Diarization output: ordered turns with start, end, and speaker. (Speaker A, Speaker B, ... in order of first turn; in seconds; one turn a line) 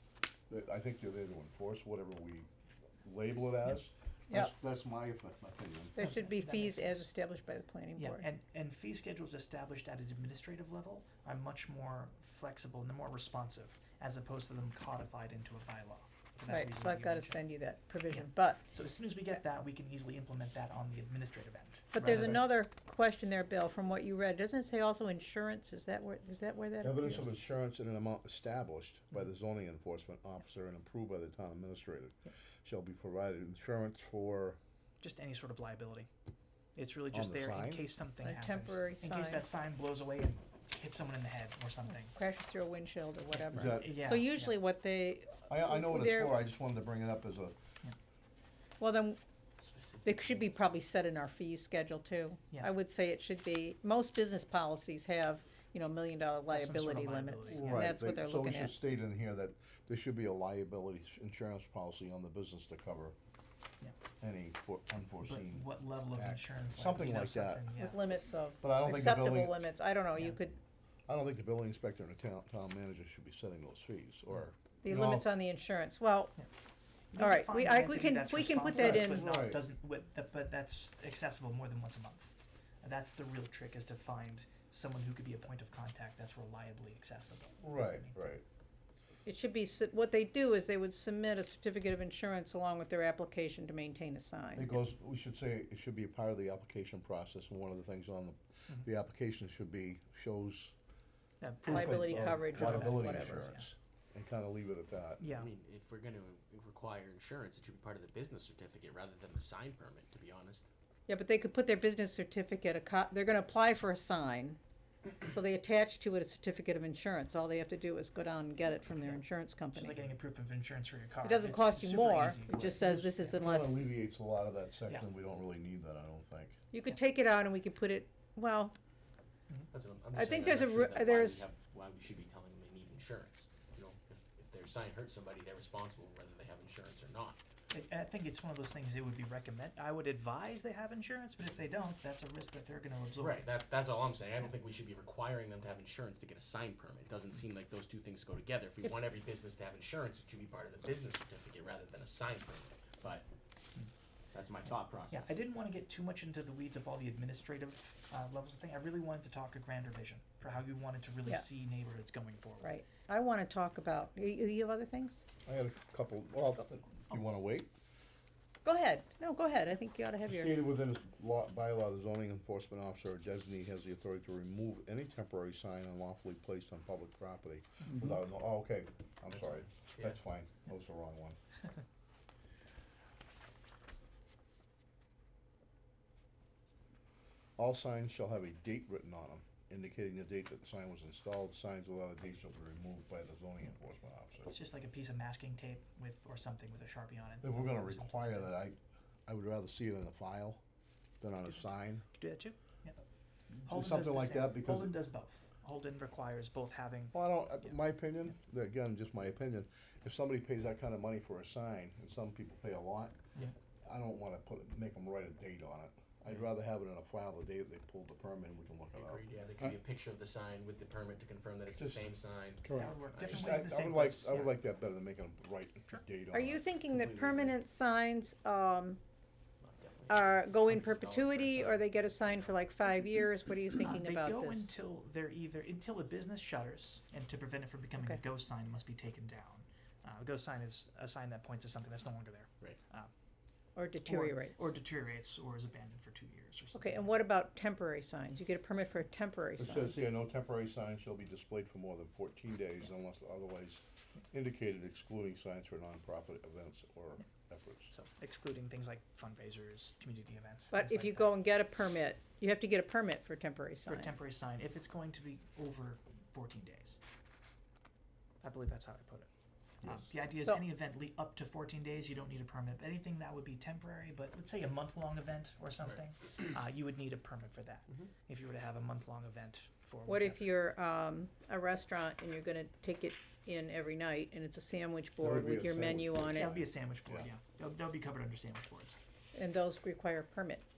Speaker A: 0.5-2.5
Speaker A: 3.0-6.0
Speaker B: 6.0-8.3
Speaker C: 6.0-7.1
Speaker C: 8.0-17.4
Speaker B: 16.5-18.6
Speaker C: 18.1-22.4
Speaker B: 21.9-27.3
Speaker A: 22.0-22.5
Speaker A: 26.8-34.6
Speaker C: 35.0-36.1
Speaker C: 36.8-42.2
Speaker A: 37.1-37.9
Speaker B: 38.2-39.5
Speaker B: 42.1-46.4
Speaker A: 43.5-44.1
Speaker C: 43.7-44.5
Speaker A: 45.5-47.6
Speaker B: 48.8-49.2
Speaker D: 49.6-50.5
Speaker B: 50.0-58.7
Speaker C: 56.5-58.0
Speaker A: 57.5-63.1
Speaker A: 64.2-67.7
Speaker C: 65.2-68.0
Speaker B: 67.8-70.6
Speaker A: 68.6-69.6
Speaker A: 71.1-75.3
Speaker B: 74.8-76.4
Speaker C: 77.1-88.3
Speaker B: 77.2-79.3
Speaker A: 78.7-79.6
Speaker A: 87.6-88.4
Speaker B: 89.3-94.8
Speaker A: 94.6-100.7
Speaker C: 101.4-103.7
Speaker A: 101.6-105.3
Speaker B: 101.7-103.5
Speaker C: 105.2-105.5
Speaker D: 105.3-110.7
Speaker B: 111.1-114.6
Speaker B: 115.2-120.0
Speaker C: 118.9-123.4
Speaker B: 121.2-123.9
Speaker A: 122.8-126.6
Speaker B: 126.7-128.8
Speaker D: 129.7-137.4
Speaker B: 130.1-131.4
Speaker C: 137.7-143.4
Speaker D: 143.2-153.3
Speaker D: 154.3-155.4
Speaker C: 155.1-162.8
Speaker B: 162.6-165.2
Speaker A: 165.4-167.7
Speaker B: 168.6-170.6
Speaker A: 170.2-181.4
Speaker A: 187.6-194.5
Speaker C: 194.5-198.5
Speaker A: 197.4-200.6
Speaker A: 201.2-202.1
Speaker C: 202.2-203.0
Speaker A: 203.6-204.9
Speaker C: 203.7-207.2
Speaker A: 207.1-213.2
Speaker A: 213.8-219.2
Speaker D: 218.9-223.5
Speaker A: 221.8-222.0
Speaker A: 222.6-227.6
Speaker C: 222.7-224.6
Speaker B: 226.3-229.0
Speaker D: 229.6-232.6
Speaker B: 230.1-234.7
Speaker C: 233.8-243.1
Speaker B: 243.8-244.6
Speaker C: 244.0-247.2
Speaker B: 246.7-249.9
Speaker A: 249.6-257.9
Speaker C: 257.9-261.4
Speaker B: 260.7-264.1
Speaker C: 263.9-267.0
Speaker C: 268.4-269.3
Speaker C: 269.8-280.5
Speaker B: 280.1-286.5
Speaker A: 285.2-287.3
Speaker C: 286.3-289.0
Speaker B: 289.3-290.6